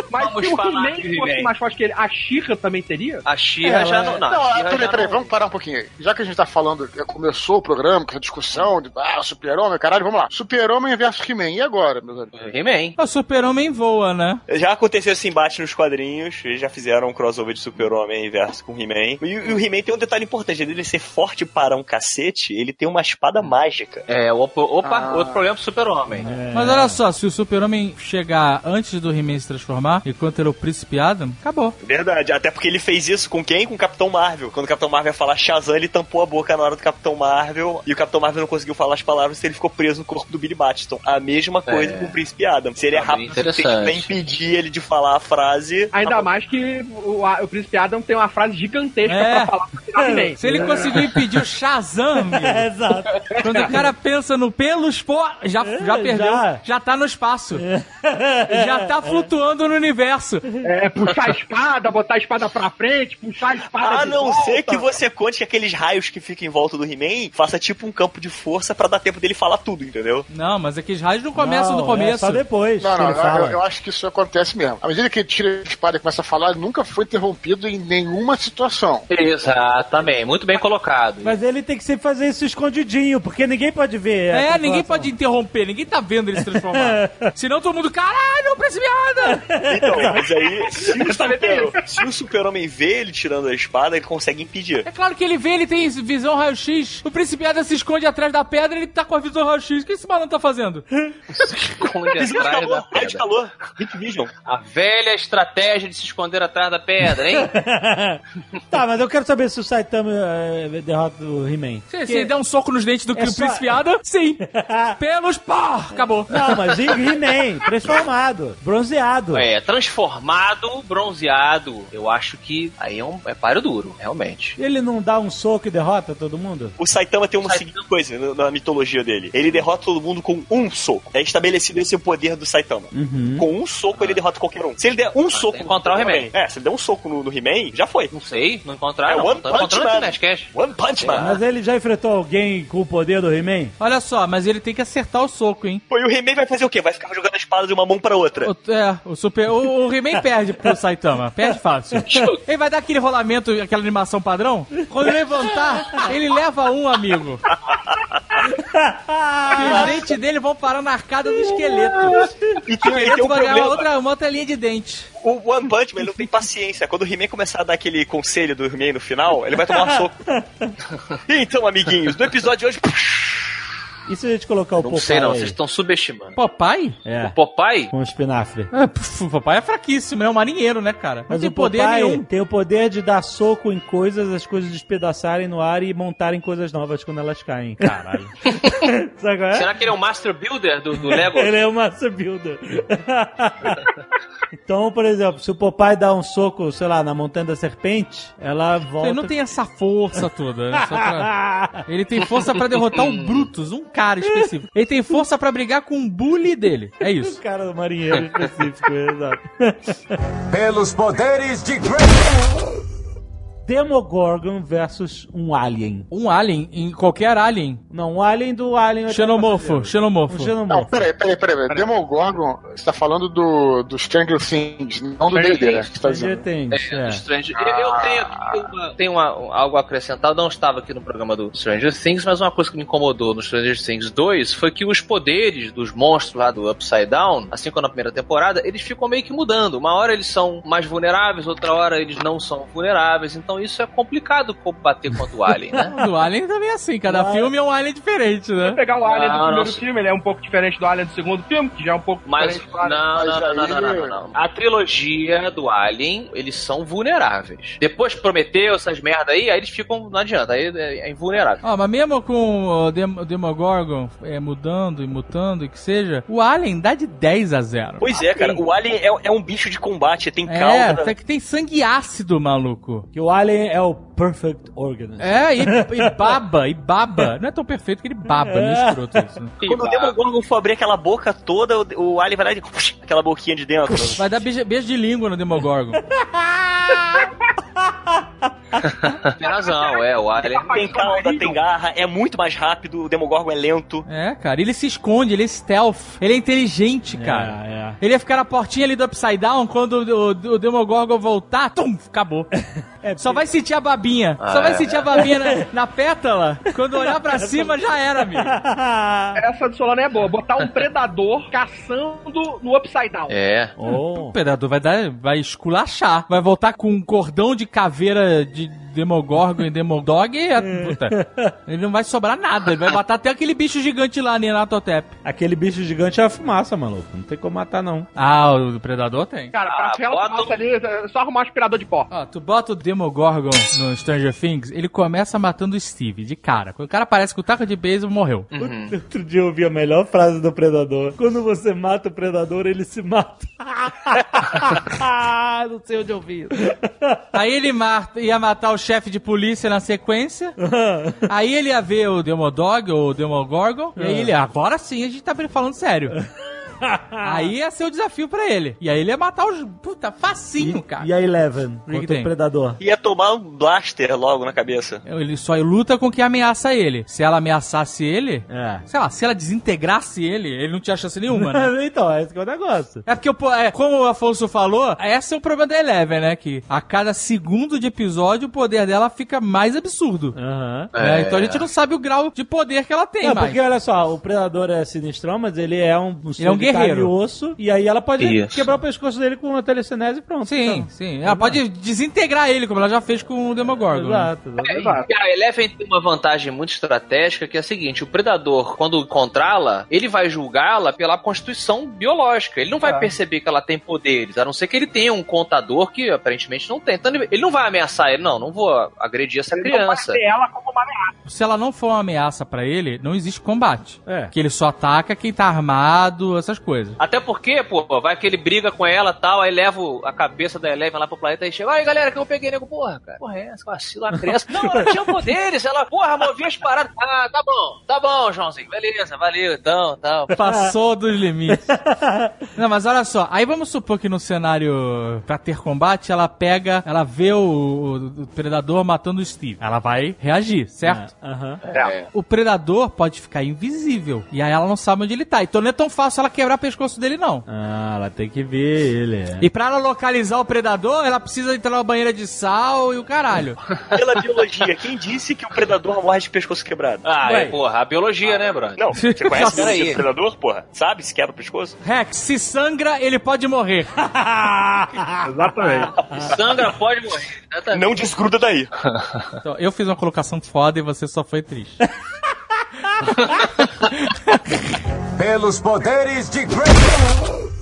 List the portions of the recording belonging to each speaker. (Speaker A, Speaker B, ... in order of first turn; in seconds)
Speaker A: 0.1-3.2, 45.9-50.4, 60.6-64.8, 90.8-91.9, 225.3-225.9, 248.6-253.0, 289.4-291.6, 309.3-313.3, 329.5-332.1, 394.7-395.1, 402.8-403.1, 409.5-411.1, 465.2-465.9
Speaker B: 0.1-1.5, 3.2-5.3, 12.3-12.9, 24.1-26.3, 41.6-42.2, 42.9-44.1, 79.1-81.3, 101.3-103.2, 104.4-107.5, 119.3-124.6, 127.4-127.8, 133.9-134.2, 135.3-136.3, 138.1-141.4, 152.1-152.4, 174.8-176.4, 177.2-177.9, 189.5-191.6, 202.9-203.5, 226.7-245.9, 249.1-249.8, 252.2-261.6, 279.6-280.1, 288.8-290.8, 304.4-305.0, 313.3-313.7, 329.6-330.5, 338.5-338.9, 380.9-381.6, 388.2-388.7, 394.6-410.2, 417.0-430.4, 441.7-442.1, 457.0-458.9, 459.4-460.0, 466.2-467.9
Speaker C: 3.6-4.2, 26.2-27.0, 50.0-51.2, 52.2-53.9, 55.6-56.6, 57.5-59.3, 71.3-73.6, 81.2-85.1, 86.4-87.3, 89.2-90.3, 107.0-112.3, 113.1-113.8, 114.4-115.0, 116.3-119.5, 124.6-126.8, 132.9-133.5, 141.2-143.7, 158.5-160.1, 169.7-170.7, 174.1-175.6, 177.0-177.3, 177.9-178.7, 181.3-189.7, 191.1-193.8, 194.6-199.3, 200.7-201.8, 207.0-210.1, 213.6-216.1, 217.9-221.0, 226.0-227.2, 247.1-247.5, 273.1-276.4, 278.3-279.2, 286.1-288.8, 297.1-298.0, 303.0-303.5, 305.2-305.6, 306.8-309.4, 313.8-314.4, 320.6-321.5, 325.2-328.1, 338.6-347.3, 350.6-351.3, 353.9-354.3, 356.8-357.5, 360.6-362.8, 368.5-368.8, 371.3-373.0, 380.4-380.9, 383.2-391.6, 393.9-394.9, 414.1-414.3, 424.1-425.0, 430.4-430.7, 431.5-432.4, 440.8-441.6, 447.5-449.5, 464.0-466.3
Speaker D: 4.2-12.3, 24.8-25.4, 72.8-79.1, 220.7-226.4, 227.6-228.4, 253.1-254.2
Speaker E: 13.0-14.4, 26.5-31.8, 49.0-49.5, 50.4-52.7, 53.4-57.6, 58.5-60.5, 70.3-72.4, 84.3-89.4, 94.8-100.8, 111.9-114.4, 115.0-116.3, 143.8-145.8, 148.4-157.4, 159.5-162.3, 162.8-165.1, 176.3-177.0, 178.7-182.2, 187.8-188.3, 199.0-207.4, 216.1-217.8, 219.1-220.5, 245.9-248.8, 261.6-268.1, 270.5-273.1, 275.2-279.5, 284.2-286.0, 294.1-302.5, 303.2-308.5, 314.2-325.1, 328.1-329.5, 332.1-338.5, 347.3-350.6, 351.3-356.2, 357.2-361.1, 361.9-362.3, 365.0-371.7, 373.1-380.4, 380.9-383.6, 386.4-387.1, 390.4-394.3, 411.2-417.0, 430.3-431.7, 432.5-441.1, 442.1-447.4, 449.4-453.6, 458.9-459.8, 461.8-464.0, 469.4-471.8
Speaker F: 14.5-24.0, 31.8-46.1, 63.7-70.3, 89.7-94.8, 102.1-104.3, 126.8-138.1, 139.1-141.3, 145.9-148.5, 157.6-158.2, 162.6-163.8, 165.2-170.2, 171.3-173.6, 268.0-271.1, 279.6-284.4, 290.6-294.0, 362.8-365.0, 453.9-457.0, 458.7-461.8, 467.7-468.7
Speaker G: 210.5-212.7, 475.2-477.3